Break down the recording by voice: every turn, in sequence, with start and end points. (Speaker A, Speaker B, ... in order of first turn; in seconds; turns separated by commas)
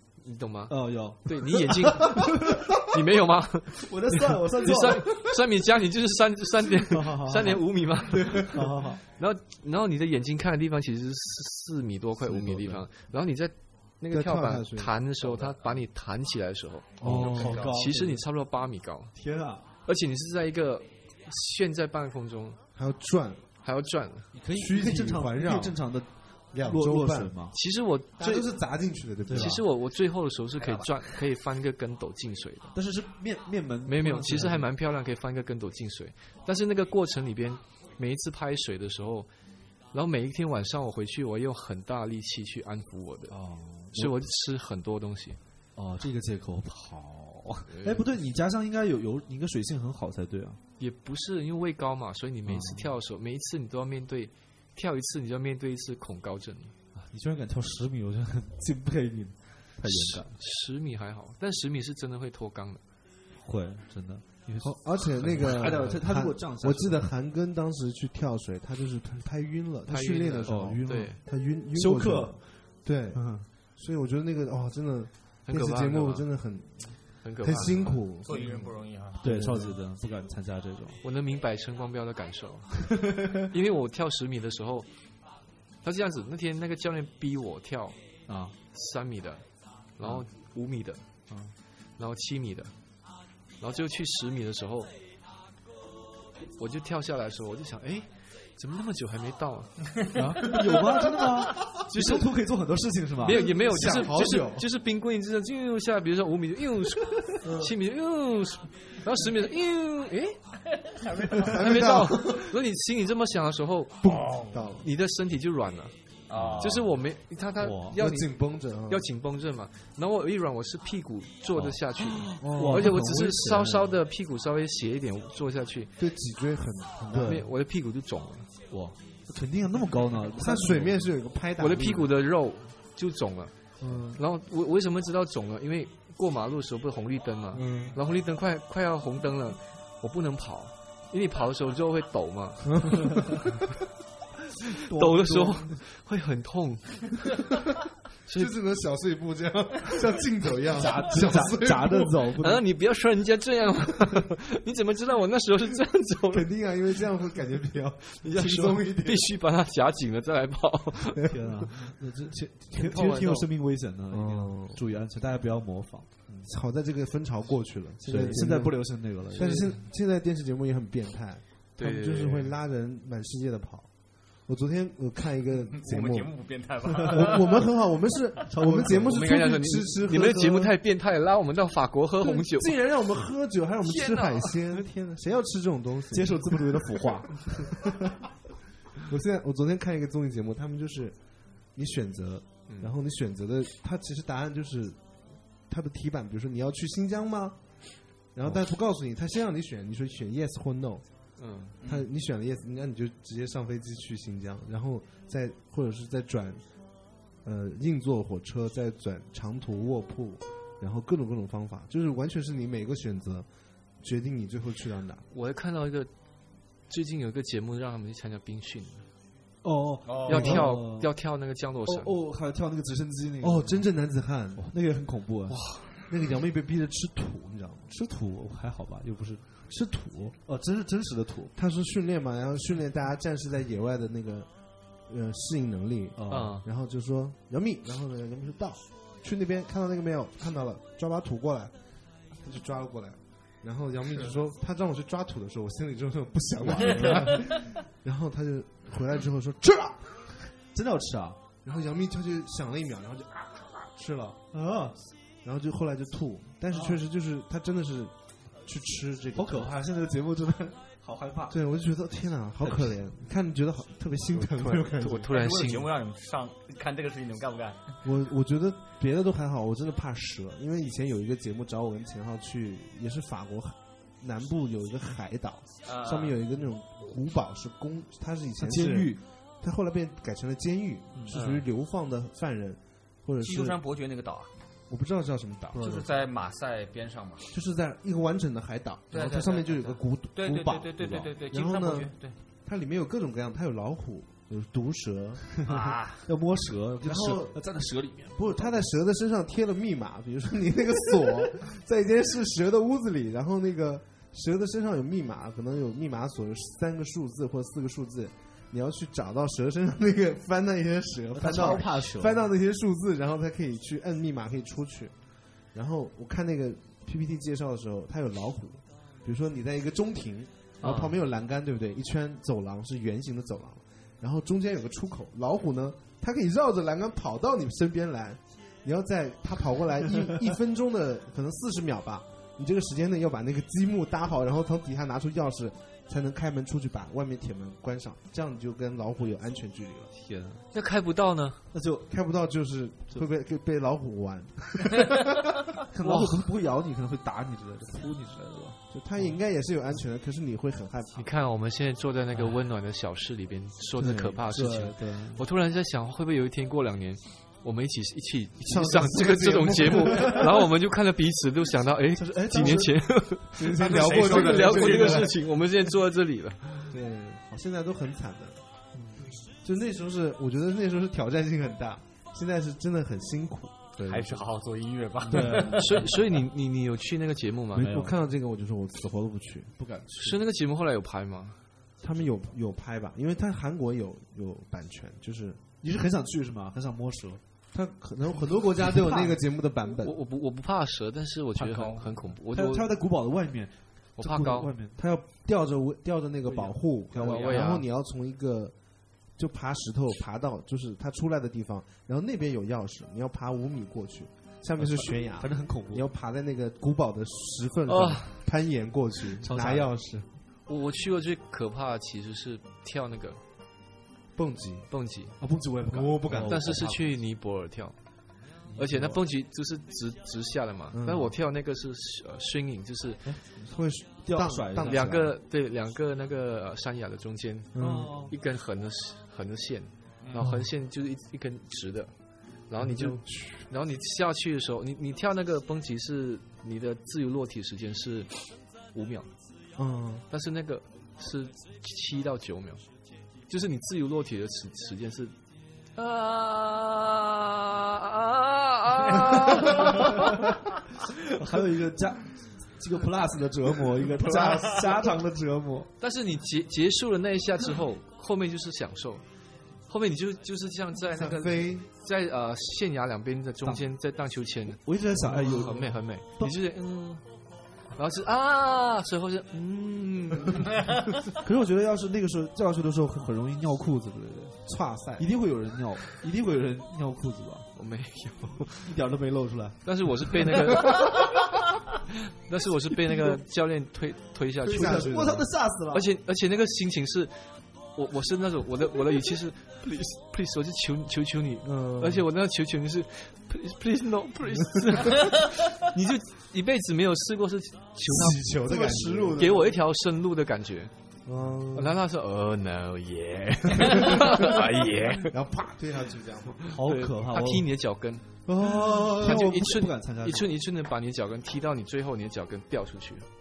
Speaker A: 0.2-19.1, Speaker B: 0.7-2.8, Speaker B: 3.8-5.4, Speaker B: 6.7-9.0, Speaker B: 12.4-12.8, Speaker C: 14.1-15.0, Speaker C: 17.0-17.6, Speaker B: 17.0-18.2, Speaker D: 17.1-17.8, Speaker B: 19.1-19.6, Speaker A: 19.9-22.6, Speaker C: 22.8-23.4, Speaker A: 23.6-24.3, Speaker B: 24.4-27.6, Speaker C: 24.5-25.9, Speaker C: 26.5-27.3, Speaker A: 27.5-28.4, Speaker B: 28.2-28.4, Speaker C: 28.2-29.6, Speaker B: 29.2-29.6, Speaker A: 29.3-32.8, Speaker D: 30.6-31.1, Speaker B: 32.7-34.7, Speaker A: 33.9-39.3, Speaker A: 39.9-43.4, Speaker B: 43.3-44.2, Speaker A: 43.9-45.4, Speaker B: 45.8-50.6, Speaker A: 47.7-48.0, Speaker A: 50.8-56.8, Speaker B: 52.5-52.9, Speaker B: 56.9-60.4, Speaker A: 59.9-62.8, Speaker B: 63.4-67.0, Speaker C: 64.6-78.6, Speaker A: 69.9-71.2, Speaker B: 70.4-71.2, Speaker B: 71.7-72.6, Speaker B: 73.1-73.5, Speaker A: 75.5-76.3, Speaker A: 77.2-78.0, Speaker D: 78.2-79.2, Speaker C: 79.2-79.8, Speaker B: 79.2-81.0, Speaker A: 81.0-84.9, Speaker A: 85.8-88.0, Speaker B: 88.3-88.5, Speaker A: 88.7-89.4, Speaker A: 90.0-91.0, Speaker B: 90.0-90.3, Speaker A: 92.0-92.7, Speaker A: 93.6-94.9, Speaker A: 96.6-100.6, Speaker B: 100.1-103.5, Speaker A: 101.6-102.3, Speaker A: 103.2-110.4, Speaker C: 103.2-104.7, Speaker C: 107.4-107.7, Speaker D: 111.0-111.5, Speaker A: 111.4-115.9, Speaker C: 111.4-112.5, Speaker C: 114.0-114.9, Speaker D: 116.3-116.8, Speaker B: 116.4-116.8, Speaker A: 116.6-118.3, Speaker B: 117.6-118.0, Speaker C: 117.9-119.0, Speaker A: 118.9-125.9, Speaker B: 121.5-123.9, Speaker C: 122.4-123.0, Speaker C: 126.0-127.4, Speaker B: 127.1-127.5, Speaker A: 127.1-128.5, Speaker B: 128.7-131.0, Speaker C: 130.3-132.1, Speaker A: 131.6-133.5, Speaker C: 133.8-134.2, Speaker A: 134.2-143.4, Speaker C: 137.5-138.0, Speaker C: 142.8-143.3, Speaker B: 144.9-145.7, Speaker A: 144.9-147.5, Speaker A: 148.2-148.5, Speaker C: 148.3-152.3, Speaker B: 150.7-152.6, Speaker A: 152.4-156.6, Speaker C: 156.3-159.3, Speaker A: 158.2-161.5, Speaker B: 161.3-166.5, Speaker A: 162.7-163.5, Speaker C: 164.1-164.8, Speaker C: 166.4-173.9, Speaker B: 168.0-169.8, Speaker A: 169.4-169.7, Speaker A: 171.8-172.6, Speaker C: 174.4-176.3, Speaker D: 175.7-177.7, Speaker C: 177.0-180.7, Speaker B: 178.5-179.2, Speaker A: 178.9-182.8, Speaker C: 182.2-188.2, Speaker A: 183.8-184.9, Speaker B: 186.1-187.7, Speaker C: 189.0-191.2, Speaker C: 191.7-195.0, Speaker A: 192.7-192.9, Speaker C: 195.7-197.8, Speaker C: 198.3-201.0, Speaker A: 201.4-201.7, Speaker D: 201.8-202.1, Speaker C: 201.8-206.6, Speaker C: 207.4-213.5, Speaker C: 214.0-215.2, Speaker A: 215.3-216.1, Speaker A: 216.9-219.1, Speaker B: 219.6-221.1, Speaker D: 220.1-220.6, Speaker A: 220.2-222.2, Speaker B: 221.9-223.9, Speaker C: 223.4-224.7, Speaker B: 224.6-225.7, Speaker A: 225.5-226.0, Speaker C: 226.1-227.9, Speaker B: 227.9-229.7, Speaker C: 229.7-230.4, Speaker B: 230.4-231.5, Speaker C: 231.5-234.5, Speaker C: 235.1-241.7, Speaker B: 236.2-236.6, Speaker A: 236.3-236.6, Speaker C: 242.4-250.4, Speaker B: 250.7-251.4, Speaker C: 251.6-254.4, Speaker B: 254.5-255.0, Speaker C: 255.4-259.8, Speaker B: 256.7-257.0, Speaker B: 259.4-261.6, Speaker C: 261.5-265.4, Speaker A: 264.6-265.9, Speaker D: 265.3-268.0, Speaker C: 268.0-283.8, Speaker D: 275.8-276.4, Speaker B: 278.6-279.2, Speaker D: 281.3-281.6, Speaker D: 283.4-284.5, Speaker C: 284.9-286.1, Speaker D: 285.7-287.5, Speaker C: 287.5-290.9, Speaker D: 289.1-292.4, Speaker B: 291.0-291.3, Speaker C: 291.5-292.1, Speaker C: 292.6-295.5, Speaker B: 295.6-298.7, Speaker D: 295.6-296.3, Speaker C: 297.0-297.6, Speaker C: 298.4-315.1, Speaker B: 311.4-312.4, Speaker C: 315.7-340.1, Speaker A: 320.8-321.1, Speaker B: 340.1-340.6, Speaker A: 340.7-341.6, Speaker B: 341.7-342.1, Speaker C: 342.1-345.6, Speaker B: 345.9-349.3, Speaker A: 346.0-346.4, Speaker C: 348.9-351.3, Speaker A: 351.1-366.9, Speaker B: 354.0-355.4, Speaker C: 354.0-354.3, Speaker C: 358.6-360.7, Speaker B: 362.2-363.0, Speaker C: 362.5-362.9, Speaker C: 363.5-365.4, Speaker D: 363.7-365.4, Speaker C: 366.9-368.6, Speaker B: 368.9-369.3, Speaker C: 369.6-374.4, Speaker D: 374.0-376.0, Speaker C: 375.3-376.0, Speaker B: 375.3-376.1, Speaker A: 375.4-378.0, Speaker B: 377.7-378.1, Speaker C: 377.8-379.9, Speaker B: 379.8-380.4, Speaker A: 380.1-381.6, Speaker C: 382.0-385.6, Speaker B: 385.8-387.4, Speaker C: 387.7-390.1, Speaker B: 388.9-389.4, Speaker A: 390.0-392.9, Speaker B: 391.5-395.0, Speaker A: 394.2-394.7, Speaker C: 395.0-398.8, Speaker B: 396.4-397.8, Speaker A: 397.1-397.9, Speaker C: 399.4-410.3, Speaker B: 404.8-406.1, Speaker A: 407.9-408.4, Speaker B: 409.4-409.9, Speaker A: 410.7-413.4, Speaker C: 414.4-414.9, Speaker A: 414.9-415.4, Speaker B: 415.4-417.1, Speaker C: 415.9-416.8, Speaker A: 416.4-417.9, Speaker B: 418.6-419.2, Speaker A: 418.8-423.4, Speaker C: 420.9-421.3, Speaker B: 423.2-425.1, Speaker C: 423.6-425.4, Speaker A: 424.8-432.1, Speaker C: 427.8-428.1, Speaker B: 427.8-428.3, Speaker C: 430.4-430.7, Speaker A: 432.7-439.3, Speaker C: 432.8-433.6, Speaker C: 439.8-440.2, Speaker A: 440.3-442.8, Speaker A: 443.5-445.3, Speaker A: 445.9-450.4, Speaker B: 451.4-455.9, Speaker C: 454.3-454.7, Speaker A: 456.0-459.2, Speaker A: 459.9-467.2, Speaker C: 461.1-461.9, Speaker B: 464.8-466.6, Speaker A: 467.9-471.1, Speaker B: 471.4-474.6, Speaker C: 474.6-475.3, Speaker B: 475.2-477.7, Speaker A: 477.8-479.0, Speaker B: 478.9-479.8, Speaker A: 479.9-481.2, Speaker B: 480.3-481.1, Speaker A: 482.4-485.3, Speaker B: 484.6-486.1, Speaker C: 484.6-485.5, Speaker A: 485.9-498.6, Speaker C: 491.6-492.2, Speaker C: 498.0-499.8, Speaker B: 498.7-499.5, Speaker A: 499.3-500.9, Speaker C: 501.2-502.0, Speaker A: 501.7-505.3, Speaker C: 503.8-504.6, Speaker C: 505.2-506.6, Speaker A: 506.7-508.2, Speaker B: 506.7-507.7, Speaker C: 508.5-509.5, Speaker B: 508.6-510.5, Speaker A: 509.2-513.3